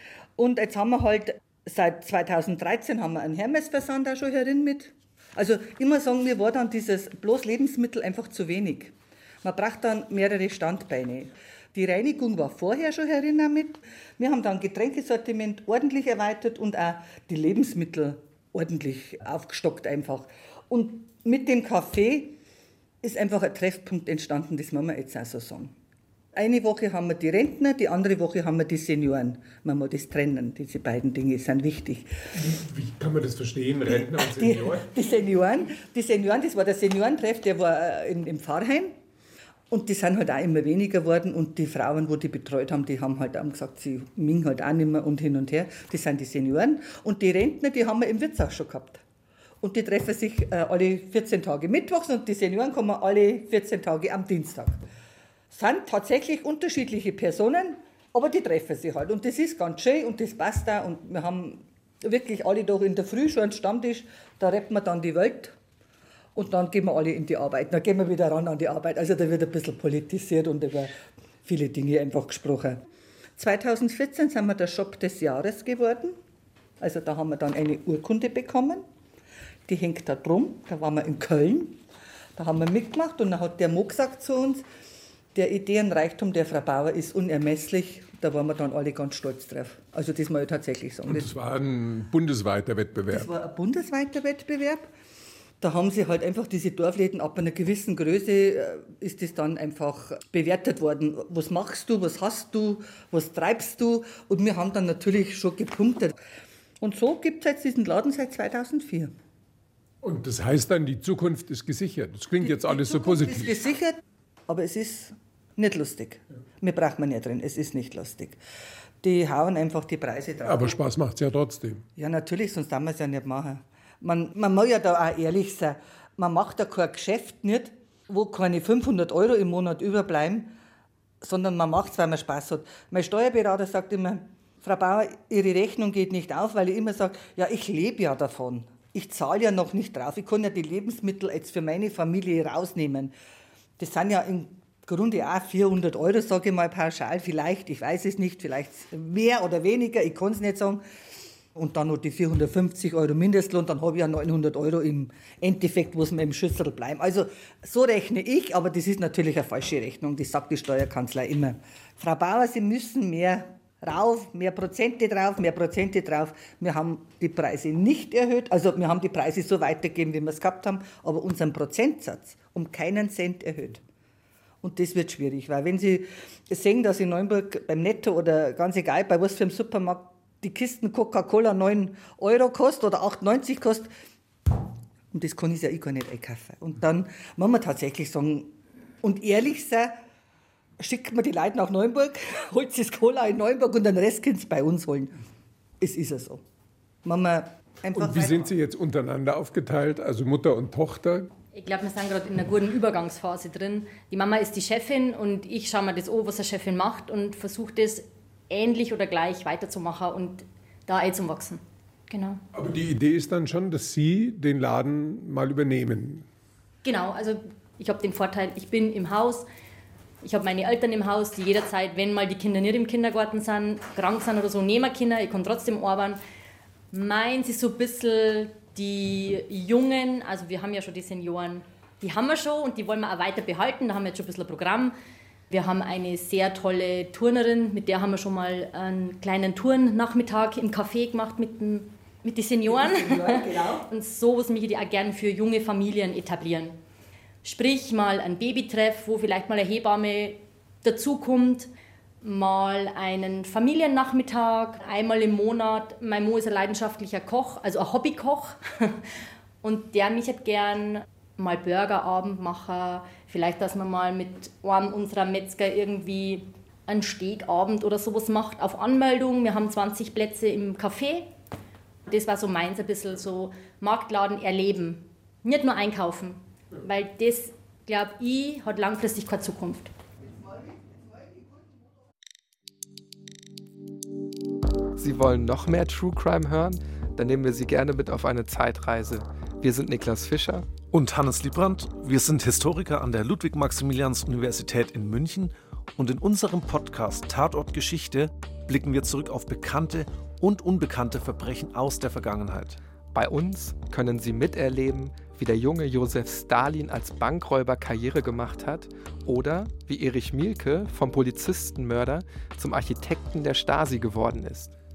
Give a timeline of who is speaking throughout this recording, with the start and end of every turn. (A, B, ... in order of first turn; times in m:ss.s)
0:00.4-0:22.4 A
0:23.0-0:25.7 A
0:26.3-0:32.1 A
0:32.3-0:34.9 B
0:33.9-0:39.0 A
0:39.7-0:49.0 A
0:49.6-0:54.8 A
0:55.5-1:05.5 A
1:06.4-1:10.9 A
1:11.4-1:12.8 A
1:13.4-1:16.2 A
1:16.8-1:18.8 A
1:19.7-1:21.8 A
1:22.4-1:24.6 A
1:25.4-1:31.3 A
1:31.1-1:33.3 B
1:33.1-1:34.9 A
1:35.6-1:46.2 A
1:46.8-1:49.1 A
1:50.0-1:53.6 B
1:52.4-1:58.4 A
1:59.0-2:00.8 A
2:00.4-2:01.8 B
2:02.0-2:10.5 A
2:11.2-2:23.1 A
2:23.8-2:30.8 A
2:31.6-2:53.8 A
2:54.6-3:03.9 A
3:05.1-3:10.0 A
3:10.8-3:15.2 A
3:15.8-3:16.4 A
3:17.0-3:18.5 A
3:17.9-3:21.3 B
3:21.5-3:32.4 C
3:32.5-3:36.3 B
3:36.8-3:39.5 C
3:40.2-3:46.2 C
3:46.9-3:55.0 C
3:55.5-4:06.8 C
4:02.7-4:03.9 A
4:07.4-4:11.7 C
4:12.2-4:19.0 C
4:19.6-4:31.3 C
4:32.1-4:39.9 C
4:45.0-4:50.7 D
4:50.9-5:02.8 E
5:03.1-5:14.8 D